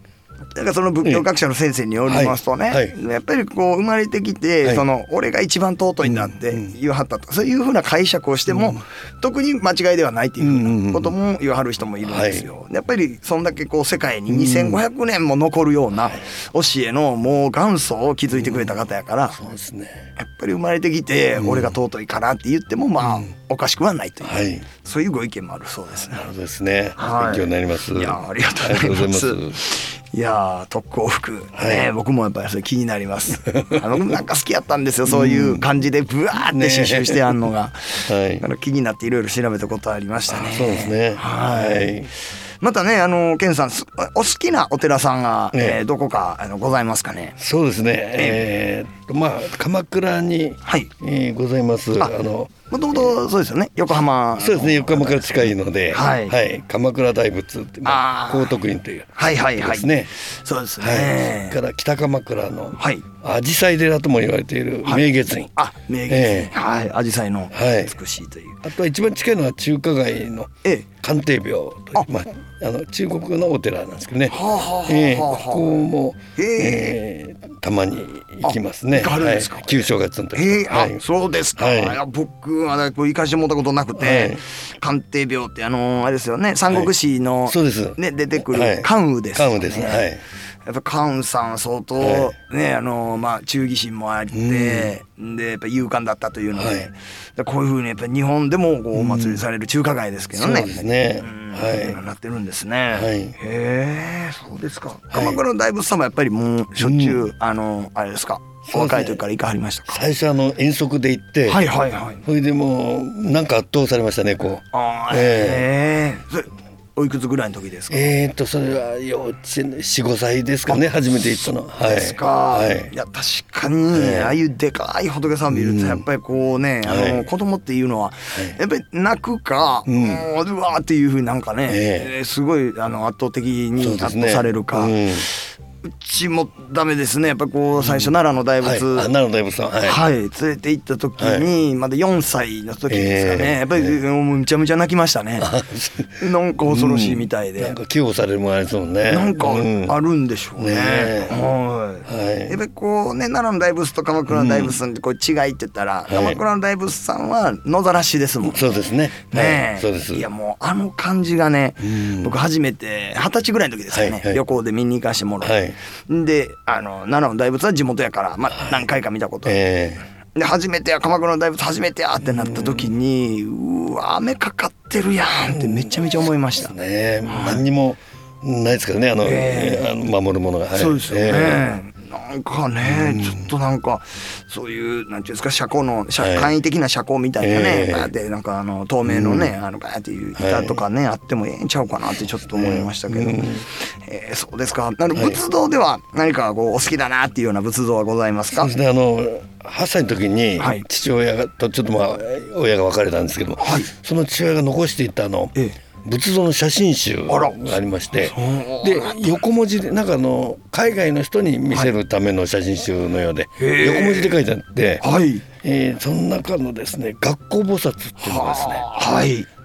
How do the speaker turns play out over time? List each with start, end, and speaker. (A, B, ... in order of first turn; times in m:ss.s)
0:00.6-0:19.4 A
0:02.1-0:02.9 B
0:06.0-0:06.7 B
0:08.5-0:08.8 B
0:10.4-0:11.1 B
0:12.0-0:12.5 B
0:14.3-0:14.8 B
0:16.0-0:16.2 B
0:18.3-0:18.7 B
0:19.3-0:20.1 B
0:20.2-0:26.3 A
0:21.4-0:21.7 B
0:23.0-0:23.3 B
0:24.2-0:24.7 B
0:26.1-0:29.6 B
0:27.0-0:47.4 A
0:31.5-0:31.9 B
0:33.5-0:33.9 B
0:35.0-0:35.7 B
0:36.5-0:37.5 B
0:38.1-0:38.4 B
0:40.3-0:42.1 B
0:45.5-0:45.8 B
0:47.4-0:53.1 B
0:48.2-0:48.4 A
0:50.6-0:50.9 A
0:52.7-0:56.4 A
0:54.4-1:00.1 B
0:57.8-0:58.6 A
0:59.1-1:01.6 A
1:00.8-1:05.5 B
1:02.8-1:03.0 A
1:04.8-1:08.6 A
1:06.1-1:06.5 B
1:07.5-1:07.9 B
1:08.6-1:21.0 B
1:14.3-1:15.8 A
1:16.4-1:17.0 A
1:18.4-1:30.0 A
1:21.6-1:22.0 B
1:24.0-1:24.4 B
1:27.5-1:30.2 B
1:30.6-1:50.1 A
1:32.0-1:32.3 B
1:34.3-1:34.9 B
1:36.5-1:36.9 B
1:38.9-1:39.4 B
1:40.3-1:42.0 B
1:42.9-1:43.4 B
1:45.1-1:45.4 B
1:46.8-1:47.2 B
1:48.7-1:49.2 B
1:49.9-1:51.6 B
1:51.5-1:52.2 A
1:52.2-1:55.7 B
1:54.7-1:58.1 A
1:57.9-2:02.9 B
2:01.8-2:19.1 A
2:03.9-2:04.3 B
2:05.5-2:06.0 B
2:06.8-2:07.2 B
2:09.9-2:10.2 B
2:11.7-2:12.1 B
2:13.8-2:15.3 B
2:17.8-2:20.0 B
2:19.8-2:25.5 A
2:21.2-2:21.5 B
2:22.9-2:24.0 B
2:25.4-2:30.0 B
2:26.2-2:27.8 A
2:29.1-2:38.8 A
2:30.6-2:31.5 B
2:32.0-2:32.6 B
2:34.3-2:34.8 B
2:36.1-2:36.4 B
2:38.4-2:40.3 B
2:39.3-2:49.6 A
2:41.8-2:42.3 B
2:43.9-2:44.4 B
2:45.4-2:45.8 B
2:49.4-2:50.0 B
2:50.3-2:56.7 A
2:52.2-2:52.9 B
2:55.5-3:01.6 B
2:57.2-2:57.6 A
2:59.2-2:59.9 A
3:00.7-3:18.7 A
3:02.8-3:03.5 B
3:06.2-3:06.5 B
3:07.4-3:08.1 B
3:09.0-3:09.5 B
3:10.4-3:10.8 B
3:12.5-3:13.6 B
3:15.1-3:15.4 B
3:18.5-3:35.0 B
3:20.6-3:20.8 A
3:23.6-3:23.9 A
3:27.3-3:29.4 A
3:33.6-3:34.4 A
3:35.0-3:35.4 A
3:35.6-3:38.8 B
3:38.2-3:39.5 A